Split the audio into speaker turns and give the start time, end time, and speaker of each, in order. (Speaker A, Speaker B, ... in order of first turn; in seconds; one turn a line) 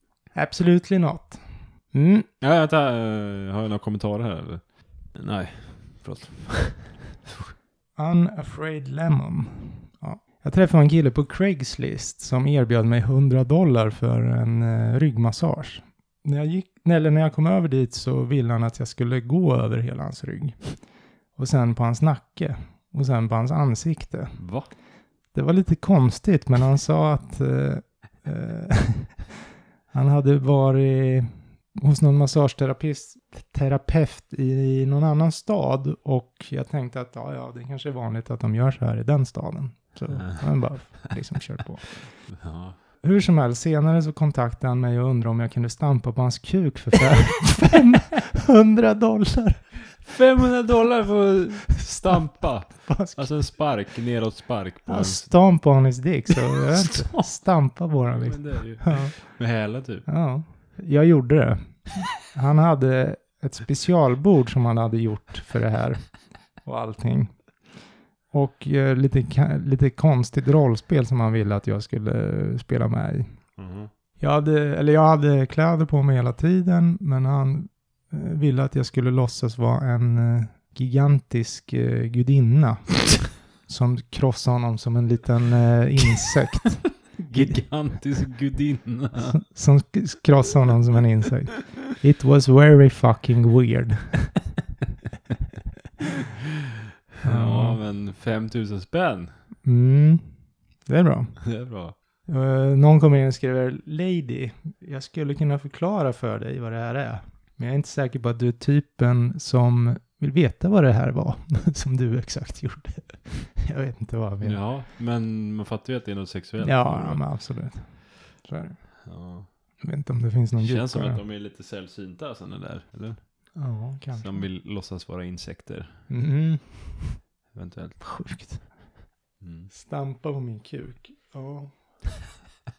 Speaker A: 0.3-2.2
Speaker B: 2.4-7.5
Speaker A: 8.0-20.8
Speaker A: 21.3-24.4
Speaker B: 24.4-24.7
Speaker A: 25.3-29.2
Speaker A: 29.9-42.3
Speaker B: 40.1-40.8
Speaker B: 42.3-42.8
Speaker A: 43.0-50.0
Speaker B: 50.0-55.3
Speaker A: 52.8-53.5
Speaker A: 54.9-59.2
Speaker B: 56.9-57.2
Speaker B: 58.1-60.1
Speaker A: 60.0-67.7
Speaker A: 68.3-73.4
Speaker B: 73.5-73.9
Speaker A: 74.2-87.6
Speaker B: 87.2-89.4
Speaker A: 89.1-94.4
Speaker A: 97.2-97.8
Speaker B: 97.2-99.3
Speaker A: 99.6-101.6
Speaker B: 101.4-101.9
Speaker A: 102.2-114.6
Speaker B: 114.4-117.3
Speaker A: 116.6-119.0
Speaker B: 119.0-119.5
Speaker A: 119.8-121.2
Speaker B: 120.6-123.2
Speaker A: 123.5-124.5
Speaker B: 124.1-126.0
Speaker A: 126.1-127.2
Speaker B: 127.5-128.4
Speaker A: 128.0-128.8
Speaker B: 129.4-129.7
Speaker A: 129.7-132.2